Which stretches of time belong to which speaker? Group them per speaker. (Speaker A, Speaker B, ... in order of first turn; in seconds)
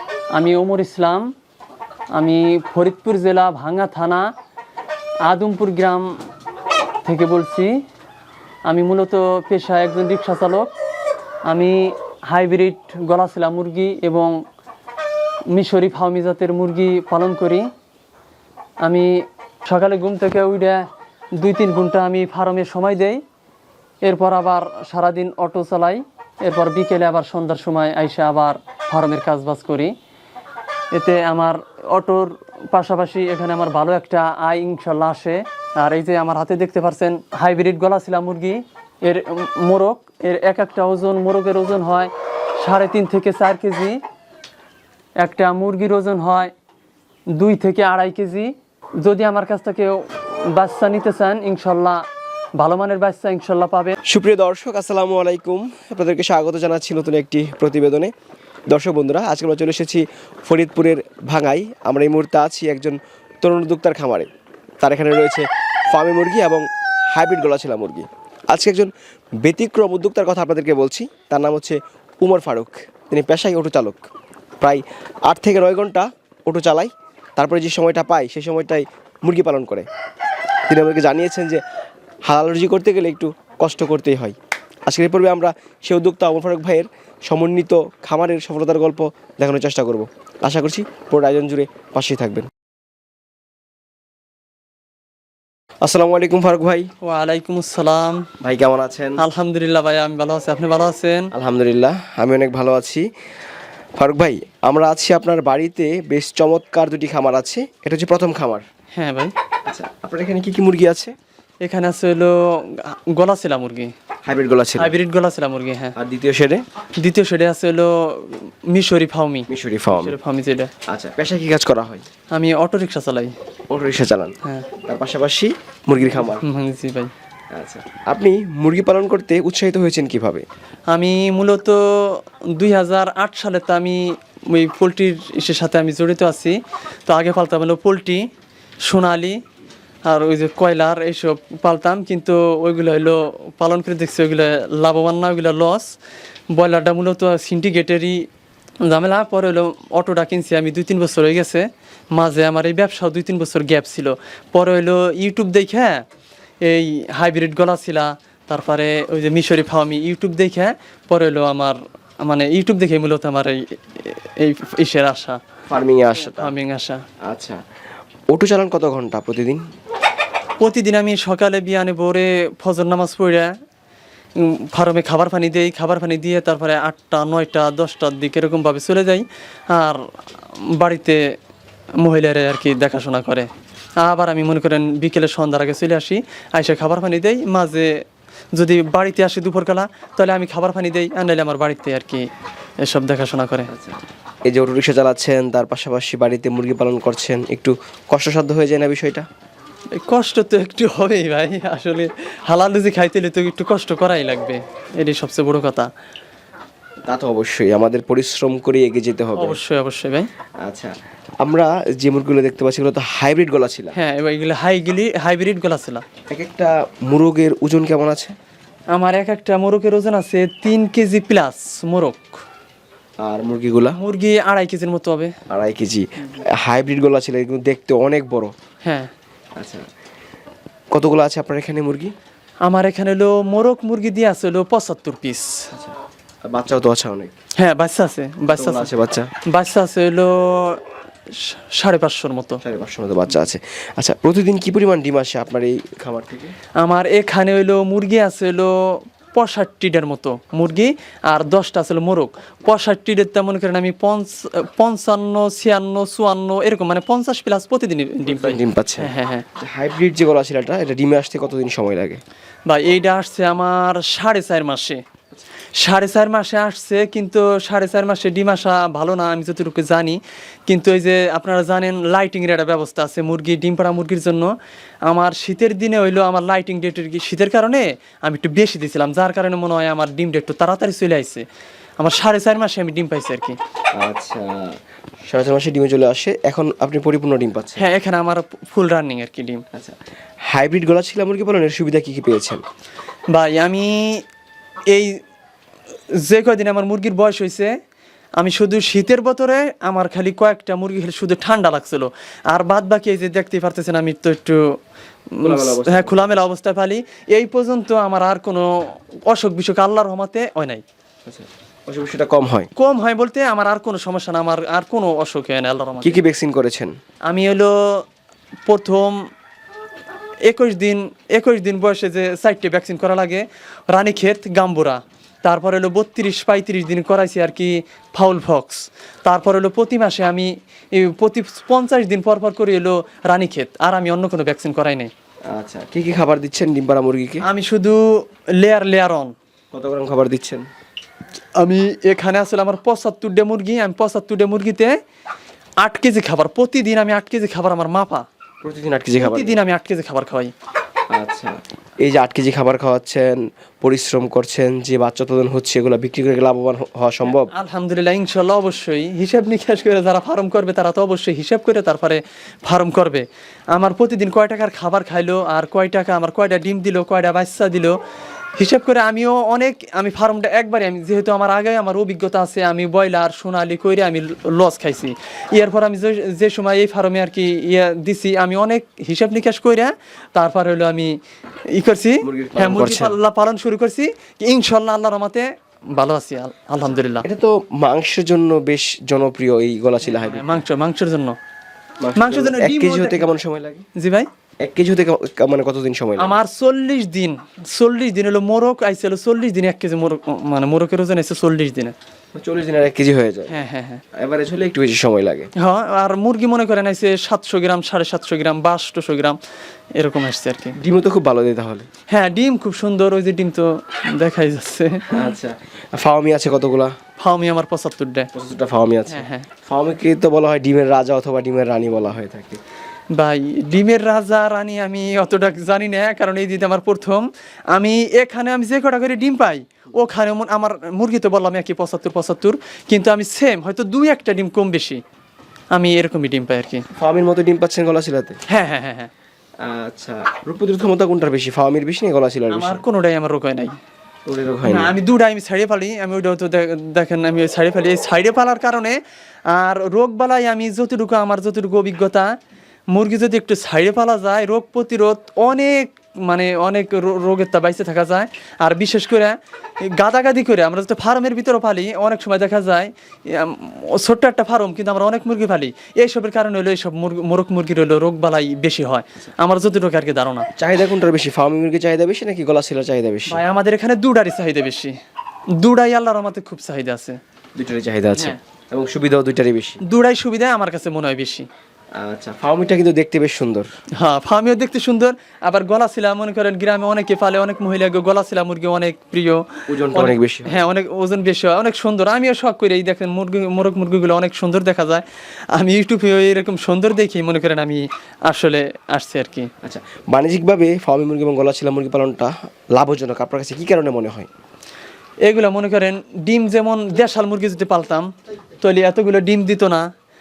Speaker A: 0.3-1.3, 2.1-4.3, 5.3-6.1, 7.0-7.7, 8.7-10.7, 11.5-14.4, 15.5-17.7, 18.8-19.1, 19.7-20.9, 21.4-23.2, 24.0-29.9, 30.9-44.0, 45.2-46.5, 47.3-52.0, 52.6-54.0, 97.0-98.3, 99.2-101.3, 108.9-109.3, 111.6-113.9, 114.8-115.9, 117.0-120.7, 122.3-123.3, 126.1-127.1, 130.9-138.2, 138.9-139.4, 140.1-145.9, 146.5-148.2, 148.8-156.0, 156.6-165.4, 166.2-167.0, 170.6-173.5, 174.4-180.0, 180.7-181.2, 182.0-187.9, 188.6-192.2, 192.8-193.7, 199.9-205.9, 209.4-210.3, 213.9-216.0, 218.9-222.4, 224.0-225.3, 228.8-229.1, 232.7-235.7, 237.6-238.9, 239.5-242.6, 246.8-259.5, 262.7-265.0, 265.8-274.5, 275.1-281.4, 282.0-283.6, 287.8-289.6, 293.3-294.2, 294.9-295.2, 296.2-297.7, 298.4-304.7, 305.3-310.8, 312.8-316.2, 317.3-318.0, 318.7-319.2, 320.5-335.1, 337.4-339.3, 341.6-344.9, 345.8-348.2, 349.2-350.5, 357.3-368.0, 368.6-381.2, 381.7-387.3, 390.1-391.4, 392.2-393.3, 394.0-394.3, 396.2-401.9, 403.5-404.0, 405.6-409.4, 410.0-410.8, 412.1-415.1, 417.2-418.3, 419.1-419.5, 423.1-435.0, 435.7-436.8, 438.5-439.1, 442.5-443.7, 444.7-449.0, 449.5-452.3, 452.9-470.5, 473.3-475.0, 475.6-477.2, 479.8-481.5, 484.0-499.5, 505.2-508.1, 508.6-509.9
Speaker B: 54.1-58.1, 58.7-64.3, 64.8-68.9, 69.4-74.1, 74.6-79.9, 80.7-81.6, 82.3-84.4, 84.9-92.5, 95.8-96.9, 98.4-99.2, 101.3-103.1, 104.0-108.7, 109.7-111.1, 114.2-115.0, 116.0-116.6, 119.5-120.2, 120.9-122.1, 123.7-126.4, 127.5-130.5, 165.7-166.5, 167.3-167.6, 168.3-169.6, 193.7-199.3, 207.1-209.6, 210.6-214.0, 216.3-218.3, 223.2-224.0, 225.5-228.5, 229.6-229.8, 230.9-232.1, 236.5-237.3, 238.6-239.3, 242.6-246.5, 258.2-262.2, 284.0-284.8, 285.3-287.9, 290.5-292.6, 305.4-306.4, 311.3-312.7, 316.0-316.9, 335.5-337.4, 339.7-340.7, 348.6-349.6, 351.1-357.5, 382.2-383.2, 387.2-390.6, 392.0-393.9, 394.6-396.4, 402.4-403.5, 404.1-405.5, 410.8-411.9, 415.1-416.9, 418.3-422.6, 437.0-438.4, 439.6-442.8, 444.3-445.0, 470.6-473.4, 477.6-479.8, 482.0-483.7, 489.7-490.6, 499.6-504.3